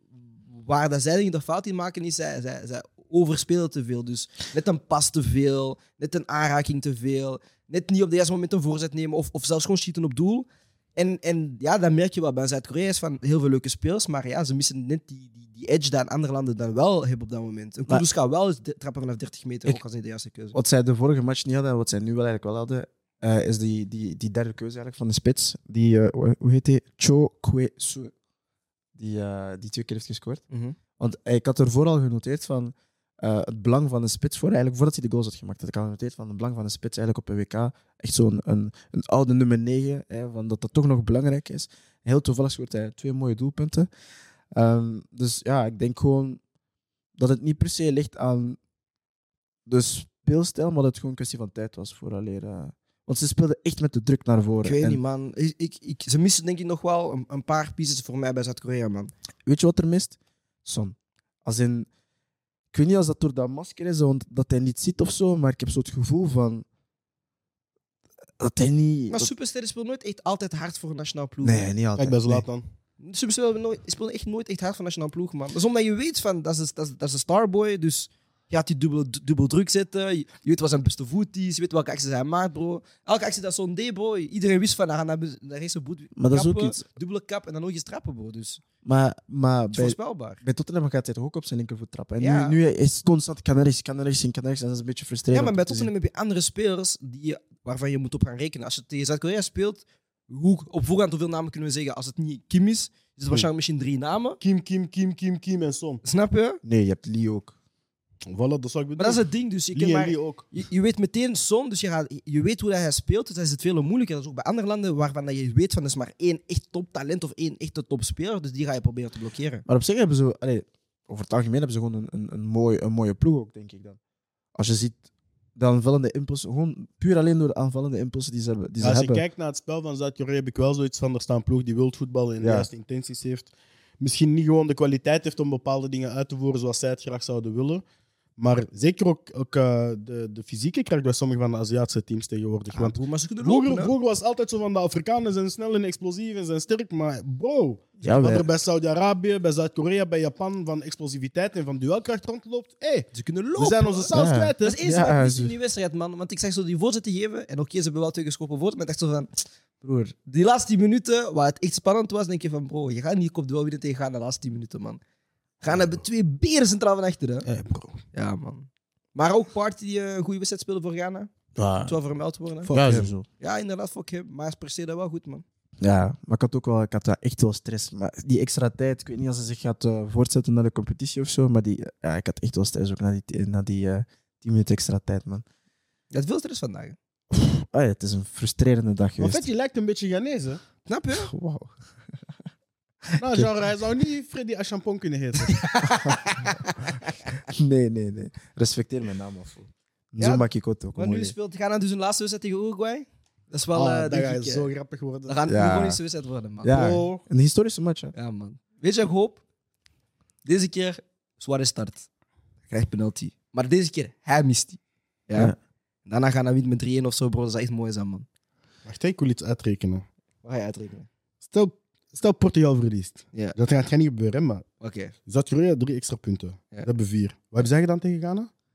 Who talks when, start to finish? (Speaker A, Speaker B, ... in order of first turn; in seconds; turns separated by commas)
Speaker A: 0.2-20.6, Speaker B: 20.5-28.1, Speaker B: 29.0-30.4, Speaker A: 30.5-30.8, Speaker B: 31.0-43.9, Speaker B: 44.5-46.4, Speaker B: 47.2-48.6, Speaker B: 49.7-55.0, Speaker A: 54.6-59.1, Speaker B: 59.5-61.9, Speaker B: 62.7-66.7, Speaker B: 68.4-69.3, Speaker A: 69.1-71.7, Speaker B: 71.4-72.5, Speaker C: 72.0-72.6, Speaker A: 73.0-88.6, Speaker B: 86.2-86.8, Speaker B: 88.8-95.9, Speaker A: 89.7-90.4, Speaker A: 92.2-92.6, Speaker A: 95.3-104.4, Speaker C: 104.4-106.0, Speaker A: 106.0-106.6, Speaker B: 106.6-107.5, Speaker C: 108.3-110.5, Speaker A: 109.0-119.7, Speaker B: 119.7-124.0, Speaker B: 124.5-125.0, Speaker B: 125.6-129.2, Speaker C: 128.8-137.8, Speaker B: 132.4-132.7, Speaker C: 138.4-154.8, Speaker A: 142.8-143.9, Speaker B: 148.0-148.5, Speaker A: 153.1-165.0, Speaker B: 154.1-155.5, Speaker A: 165.6-167.5, Speaker C: 167.5-168.0, Speaker A: 168.1-171.3, Speaker B: 171.6-171.9, Speaker A: 171.8-172.8, Speaker C: 172.7-173.1, Speaker B: 172.7-173.3, Speaker A: 173.4-175.4, Speaker B: 175.8-185.4, Speaker A: 186.1-187.0, Speaker B: 187.3-189.4, Speaker C: 189.2-190.6, Speaker A: 190.9-191.3, Speaker B: 191.2-191.7, Speaker B: 193.2-193.5, Speaker C: 193.2-195.7, Speaker A: 195.5-197.1, Speaker B: 197.5-201.3, Speaker A: 200.2-204.7, Speaker C: 203.8-205.4, Speaker A: 205.3-207.0, Speaker B: 205.5-206.0, Speaker B: 206.6-208.1, Speaker C: 206.7-207.2, Speaker A: 208.2-209.4, Speaker A: 210.4-212.1, Speaker A: 212.7-215.5, Speaker A: 216.1-218.3, Speaker C: 218.9-220.1, Speaker A: 220.4-221.1, Speaker C: 221.4-224.7, Speaker A: 224.8-225.1, Speaker C: 225.3-228.5